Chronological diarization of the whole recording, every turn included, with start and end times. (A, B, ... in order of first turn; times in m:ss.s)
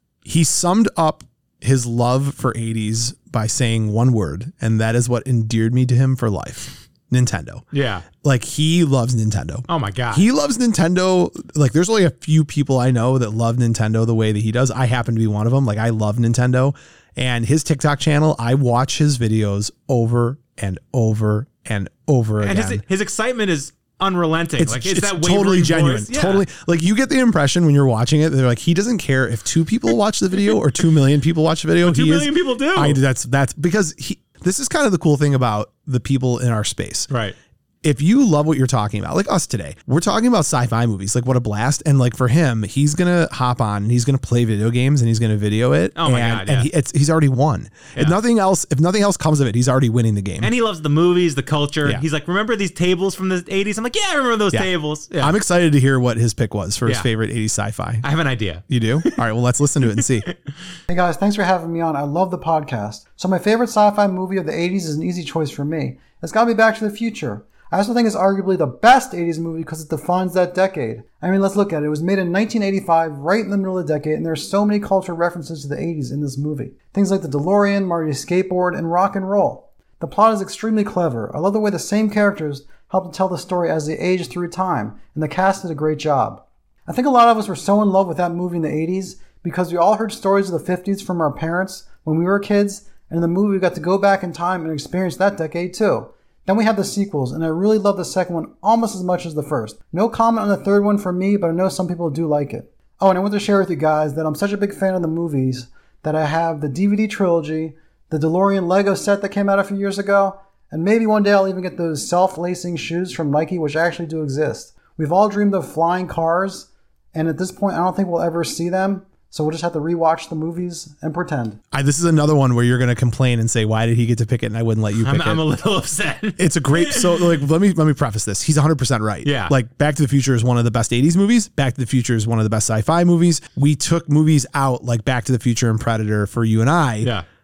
0:00.2-0:22.8 A
0:07.7-0:08.0 B
0:09.7-0:10.3 B
0:22.4-0:26.4 B
0:24.6-0:37.1 A
0:31.8-0:33.0 B
0:37.1-0:37.4 B
0:37.8-0:50.5 A
0:46.0-0:46.7 B
0:50.4-0:55.4 B
0:54.5-0:58.0 A
0:58.0-0:59.2 B
0:58.7-1:00.3 A
1:00.9-2:01.6 C
2:01.7-2:05.4 A
2:05.0-2:07.4 B
2:06.4-2:17.1 A
2:09.2-2:09.5 B